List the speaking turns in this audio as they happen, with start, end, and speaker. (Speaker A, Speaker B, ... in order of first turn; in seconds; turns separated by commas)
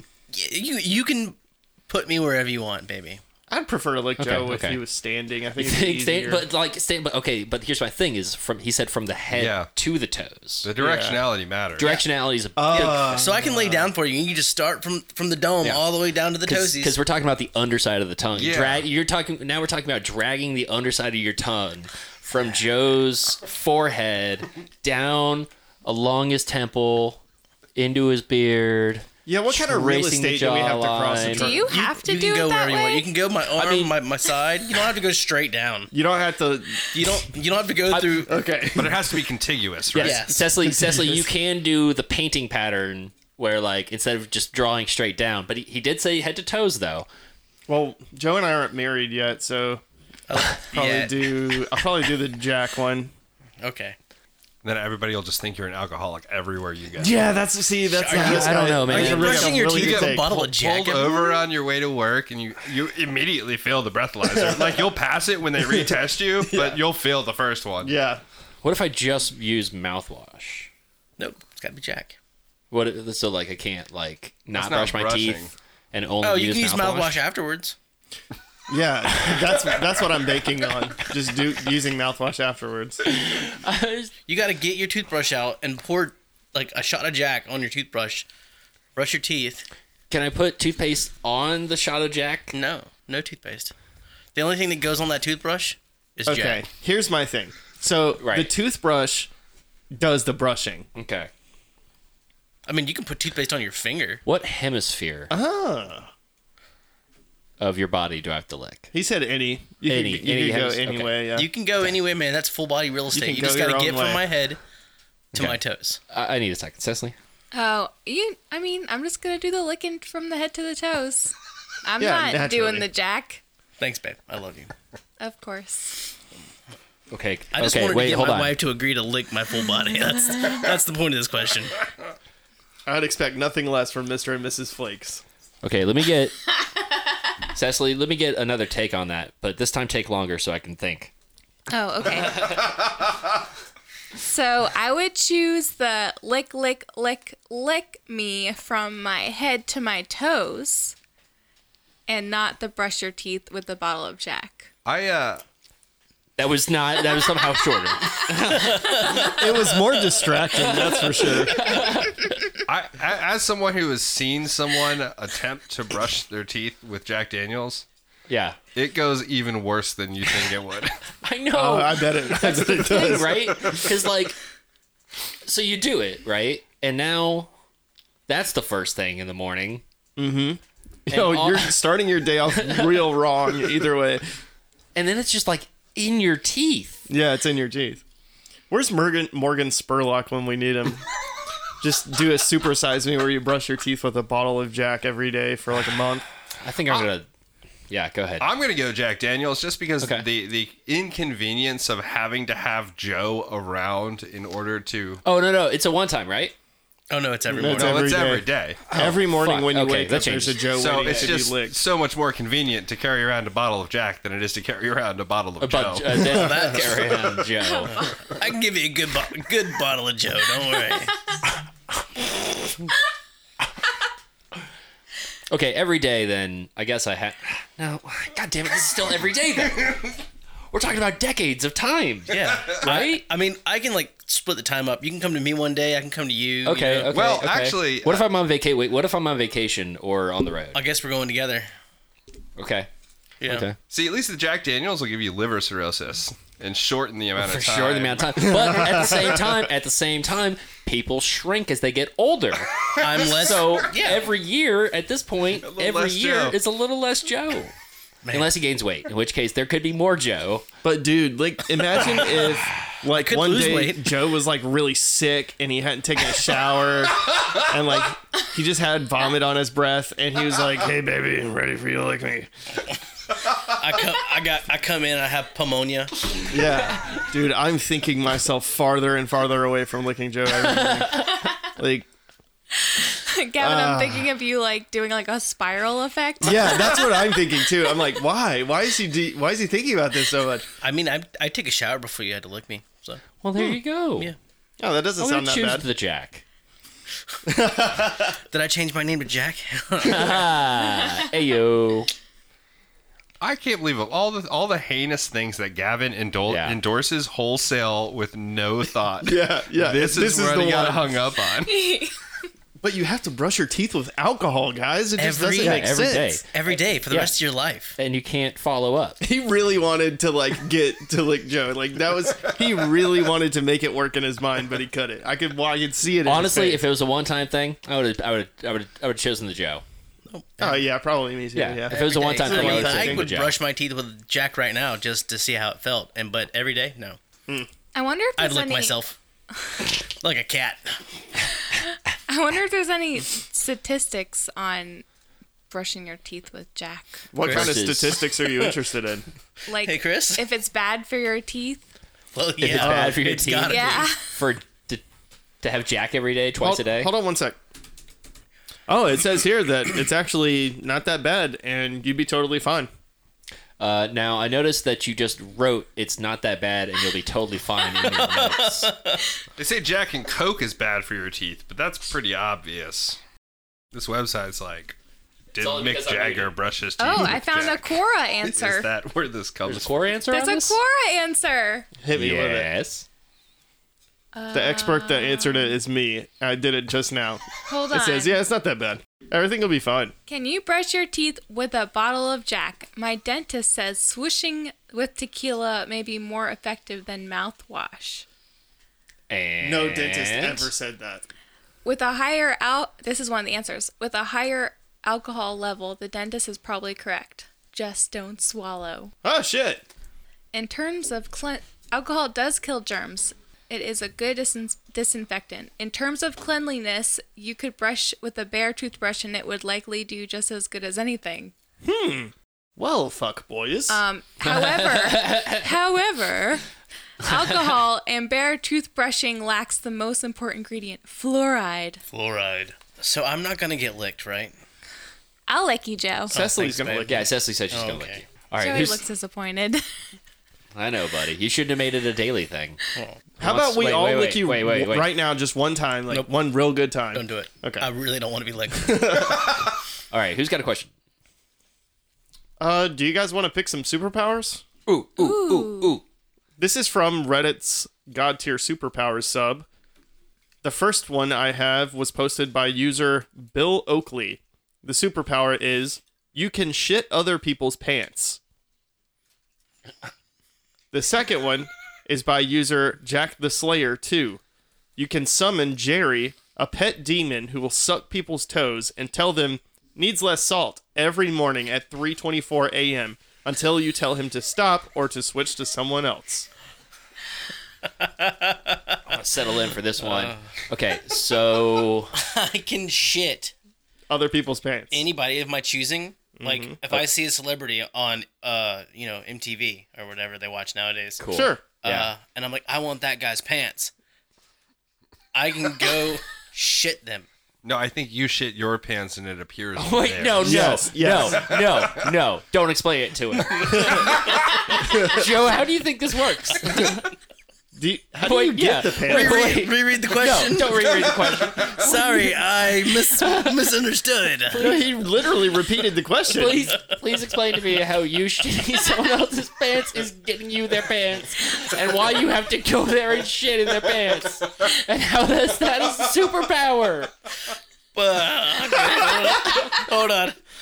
Speaker A: 0.3-1.4, Speaker A: 1.9-3.2, Speaker B: 3.5-6.5, Speaker C: 4.2-4.8, Speaker C: 5.6-10.7, Speaker D: 9.3-9.7, Speaker D: 10.6-11.9, Speaker B: 10.8-11.2, Speaker C: 11.8-13.2, Speaker B: 12.6-13.8, Speaker A: 12.7-17.0, Speaker C: 16.4-27.2, Speaker D: 18.4-18.9, Speaker C: 27.8-31.5, Speaker B: 29.3-31.9, Speaker E: 31.3-33.1, Speaker A: 31.7-35.9, Speaker C: 33.6-33.9, Speaker B: 35.9-37.3, Speaker A: 36.9-38.4, Speaker C: 37.9-38.2, Speaker B: 38.3-39.2, Speaker D: 38.8-40.2, Speaker C: 39.9-47.1, Speaker A: 40.0-40.5, Speaker B: 40.6-41.3, Speaker B: 47.7-49.8, Speaker A: 50.3-51.6, Speaker B: 50.6-53.1, Speaker A: 53.6-54.0, Speaker D: 54.6-57.2, Speaker B: 57.0-60.4, Speaker A: 57.9-61.5, Speaker C: 58.1-59.5, Speaker D: 59.1-67.9, Speaker B: 64.2-65.0, Speaker B: 65.6-66.8, Speaker B: 67.8-68.2, Speaker C: 68.6-70.7, Speaker A: 71.2-72.2, Speaker C: 72.7-77.2, Speaker D: 74.5-75.5, Speaker A: 76.2-77.8, Speaker B: 78.7-83.0, Speaker C: 83.0-84.1, Speaker A: 84.3-88.3, Speaker A: 89.0-89.7, Speaker C: 90.1-92.5, Speaker A: 92.5-93.7, Speaker A: 94.3-96.7, Speaker B: 96.3-99.3, Speaker C: 98.2-98.5, Speaker B: 99.9-100.9, Speaker C: 101.0-101.3, Speaker A: 102.7-104.2, Speaker C: 104.2-105.3, Speaker B: 105.3-106.1, Speaker C: 107.6-108.9, Speaker B: 108.9-111.5, Speaker C: 109.9-111.2, Speaker A: 111.3-114.6, Speaker B: 113.1-114.3, Speaker C: 115.3-115.6, Speaker A: 115.3-116.0, Speaker C: 116.1-117.2, Speaker E: 117.5-121.3, Speaker E: 121.8-123.4, Speaker B: 122.0-122.9, Speaker A: 123.8-124.7, Speaker E: 125.2-126.1, Speaker C: 127.1-128.6, Speaker A: 127.5-131.8, Speaker B: 132.9-135.2, Speaker C: 135.6-136.4, Speaker C: 137.5-141.1, Speaker E: 141.7-142.8, Speaker E: 144.2-150.9, Speaker E: 152.1-154.7, Speaker D: 154.8-155.4, Speaker C: 156.4-159.4, Speaker A: 158.6-159.5, Speaker B: 159.2-161.6, Speaker C: 160.6-162.6, Speaker D: 162.7-167.8, Speaker C: 168.3-168.6, Speaker D: 168.8-171.0, Speaker C: 171.2-174.4, Speaker B: 171.5-173.9, Speaker C: 175.4-177.5, Speaker C: 178.3-179.8, Speaker B: 180.2-184.2, Speaker C: 181.1-181.8, Speaker C: 182.5-183.1, Speaker C: 184.9-187.0, Speaker B: 187.1-188.0, Speaker B: 188.7-191.1, Speaker B: 191.8-196.3, Speaker C: 196.6-197.3, Speaker C: 197.9-198.5, Speaker D: 198.4-205.2, Speaker C: 200.0-200.3, Speaker C: 205.2-206.6, Speaker A: 207.1-208.1, Speaker B: 207.5-211.8, Speaker D: 207.7-208.8, Speaker C: 208.9-211.2, Speaker D: 210.7-216.3, Speaker C: 215.6-218.0, Speaker A: 216.2-217.2, Speaker A: 217.9-221.2, Speaker C: 225.5-230.2, Speaker C: 230.7-233.2, Speaker A: 232.3-237.1, Speaker C: 236.7-240.8, Speaker D: 237.1-238.3, Speaker A: 240.7-241.7, Speaker C: 242.6-242.9, Speaker A: 243.4-243.7, Speaker C: 243.4-243.8, Speaker D: 243.9-249.0, Speaker C: 247.4-257.7, Speaker B: 248.6-249.4, Speaker A: 253.0-254.3, Speaker D: 255.6-256.6, Speaker A: 258.2-258.5, Speaker C: 258.3-260.7, Speaker B: 260.8-272.5, Speaker A: 263.1-264.0, Speaker A: 273.6-276.1, Speaker B: 276.5-282.1, Speaker E: 283.0-287.4, Speaker B: 283.6-284.3, Speaker B: 286.4-290.7, Speaker A: 290.8-293.2, Speaker C: 293.4-294.3, Speaker B: 294.8-295.9, Speaker C: 295.2-296.4, Speaker B: 297.4-298.4, Speaker A: 298.5-300.5, Speaker C: 300.0-302.1, Speaker D: 303.4-311.8, Speaker C: 306.5-306.8, Speaker B: 309.2-311.2, Speaker E: 311.6-312.2, Speaker B: 312.8-316.4, Speaker A: 315.2-318.0, Speaker C: 315.6-316.5, Speaker C: 318.0-319.2, Speaker B: 319.2-326.8, Speaker C: 326.2-329.8, Speaker A: 330.3-330.8, Speaker B: 330.6-333.3, Speaker C: 331.6-333.6, Speaker A: 331.9-337.2, Speaker E: 337.9-339.0, Speaker A: 338.4-339.2, Speaker A: 340.1-341.0, Speaker E: 341.7-345.1, Speaker E: 345.7-347.3, Speaker B: 347.3-349.2, Speaker C: 347.4-348.2, Speaker A: 348.4-348.8, Speaker E: 349.7-351.8, Speaker A: 349.8-350.4, Speaker A: 352.3-354.1, Speaker C: 352.6-355.0, Speaker B: 352.7-353.3, Speaker E: 353.7-354.2, Speaker C: 355.6-357.1, Speaker B: 356.6-357.6, Speaker B: 358.9-362.9, Speaker C: 363.8-368.9, Speaker A: 368.0-369.2, Speaker D: 369.6-373.2, Speaker D: 373.9-375.0, Speaker D: 375.5-379.9, Speaker C: 375.6-376.6, Speaker E: 377.0-378.9, Speaker C: 379.7-380.8, Speaker E: 380.3-381.9, Speaker B: 382.0-382.7, Speaker C: 382.1-383.1, Speaker E: 384.3-385.7, Speaker B: 384.5-390.1, Speaker E: 387.7-388.4, Speaker E: 390.3-398.2, Speaker C: 399.3-400.7, Speaker B: 399.6-401.3, Speaker E: 401.9-409.1, Speaker B: 409.2-409.8, Speaker E: 410.5-421.5, Speaker B: 421.8-424.0, Speaker E: 423.9-426.6, Speaker C: 424.4-425.7, Speaker E: 427.2-432.0, Speaker C: 427.3-427.6, Speaker A: 432.1-434.5, Speaker E: 435.5-436.4, Speaker B: 436.3-437.3, Speaker A: 436.3-437.1, Speaker C: 436.7-439.0, Speaker A: 437.7-438.2, Speaker E: 438.6-439.8, Speaker C: 440.8-442.8, Speaker C: 443.4-445.1, Speaker B: 443.4-447.9, Speaker A: 447.1-449.5, Speaker B: 448.7-449.7, Speaker C: 450.1-450.9, Speaker B: 452.6-454.6, Speaker C: 454.9-456.0, Speaker E: 455.2-456.0, Speaker B: 456.6-459.7, Speaker B: 460.6-468.4, Speaker B: 470.9-474.4, Speaker B: 475.0-486.5, Speaker A: 488.0-489.0, Speaker C: 489.1-492.1, Speaker A: 490.0-490.4, Speaker A: 492.1-493.5, Speaker B: 494.1-495.1, Speaker A: 494.9-501.2, Speaker B: 496.4-496.8, Speaker C: 501.2-502.1, Speaker B: 501.3-501.6, Speaker A: 501.8-503.9, Speaker A: 505.3-507.3, Speaker D: 507.6-510.7, Speaker C: 509.8-517.1, Speaker B: 510.4-511.6, Speaker B: 513.7-514.2, Speaker A: 513.7-514.2, Speaker B: 514.8-515.3, Speaker B: 517.8-519.5, Speaker C: 518.2-522.4, Speaker A: 519.0-524.6, Speaker C: 523.1-523.5, Speaker C: 524.5-525.0, Speaker B: 524.6-526.7, Speaker C: 526.3-537.1, Speaker A: 538.0-540.4